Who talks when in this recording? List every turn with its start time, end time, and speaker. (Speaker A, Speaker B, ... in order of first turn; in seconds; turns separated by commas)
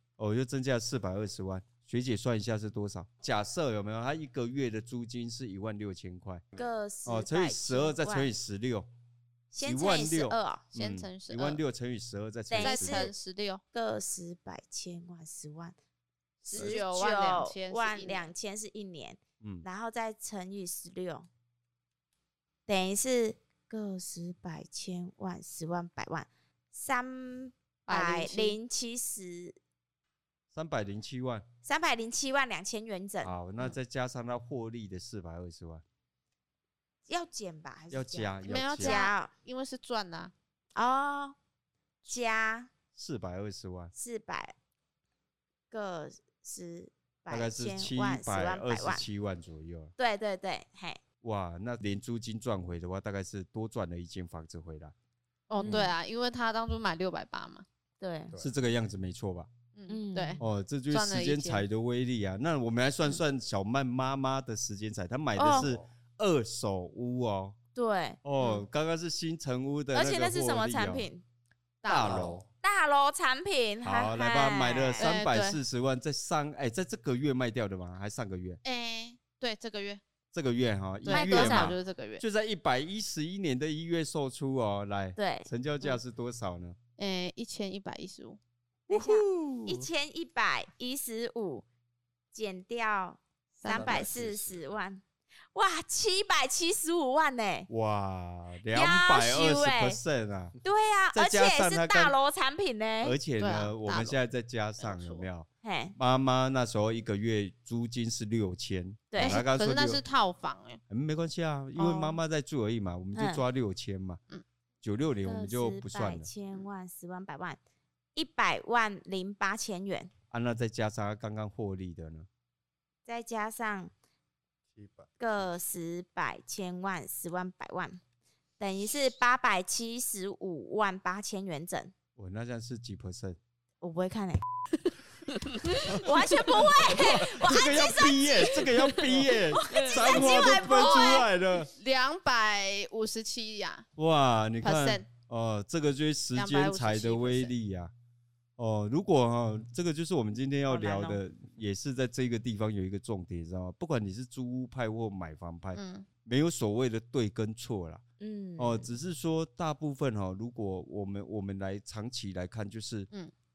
Speaker A: 0.2-6.4, Speaker B: 6.5-8.3, Speaker A: 7.0-8.9, Speaker B: 9.5-10.7, Speaker A: 9.6-13.1, Speaker C: 10.7-11.6, Speaker B: 12.5-13.1, Speaker C: 12.6-13.6, Speaker B: 13.7-15.8, Speaker B: 16.4-21.3, Speaker C: 16.4-18.3, Speaker D: 16.5-16.8, Speaker B: 22.7-29.6, Speaker C: 27.9-28.6, Speaker A: 30.5-31.4, Speaker B: 31.6-33.3, Speaker A: 33.2-35.8, Speaker B: 37.1-39.3, Speaker A: 37.9-39.0, Speaker C: 38.4-40.3, Speaker B: 40.8-41.4, Speaker B: 42.0-42.7, Speaker A: 42.9-43.9, Speaker B: 43.9-44.5, Speaker B: 45.7-49.0, Speaker A: 47.3-49.9, Speaker B: 50.0-51.0, Speaker A: 51.2-54.9, Speaker C: 55.5-57.6, Speaker B: 55.6-55.9, Speaker B: 58.0-58.3, Speaker A: 58.4-59.5, Speaker C: 59.7-61.6, Speaker B: 59.9-60.4, Speaker A: 60.4-67.6, Speaker B: 65.4-65.7, Speaker D: 65.5-65.9, Speaker B: 67.7-68.5, Speaker A: 68.2-71.1, Speaker B: 69.9-71.2, Speaker C: 71.8-72.4, Speaker A: 71.8-72.4, Speaker D: 72.0-72.5, Speaker B: 72.6-75.1, Speaker A: 73.8-78.6, Speaker C: 75.0-75.6, Speaker C: 78.6-80.0, Speaker A: 80.3-86.8, Speaker C: 81.0-82.2, Speaker B: 81.1-81.7, Speaker B: 85.2-85.5, Speaker C: 87.0-88.4, Speaker A: 88.9-89.9, Speaker B: 88.9-91.7, Speaker B: 92.3-95.0, Speaker C: 93.6-94.1, Speaker D: 93.7-94.6, Speaker B: 95.5-97.7, Speaker A: 97.7-100.5, Speaker B: 98.7-100.0, Speaker B: 100.6-103.2, Speaker A: 101.1-102.2, Speaker A: 103.0-110.0, Speaker C: 103.4-104.2, Speaker C: 104.8-105.3, Speaker B: 105.6-105.9, Speaker B: 109.1-109.4, Speaker C: 109.2-110.8, Speaker A: 110.9-114.2, Speaker B: 111.8-112.2, Speaker B: 113.1-113.4, Speaker A: 114.8-116.3, Speaker B: 115.2-117.6, Speaker B: 118.1-120.1, Speaker A: 120.3-122.3, Speaker B: 123.0-123.9, Speaker D: 124.7-125.1, Speaker B: 125.2-128.0, Speaker B: 128.6-131.9, Speaker A: 132.2-133.4, Speaker B: 133.8-134.4, Speaker C: 135.3-135.8, Speaker A: 135.8-141.7, Speaker B: 135.9-141.2, Speaker C: 139.7-143.9, Speaker A: 144.0-147.9, Speaker C: 144.6-145.1, Speaker C: 146.3-147.5, Speaker A: 148.6-158.0, Speaker B: 150.7-151.2, Speaker C: 155.7-156.1, Speaker B: 158.2-158.9, Speaker A: 158.6-163.1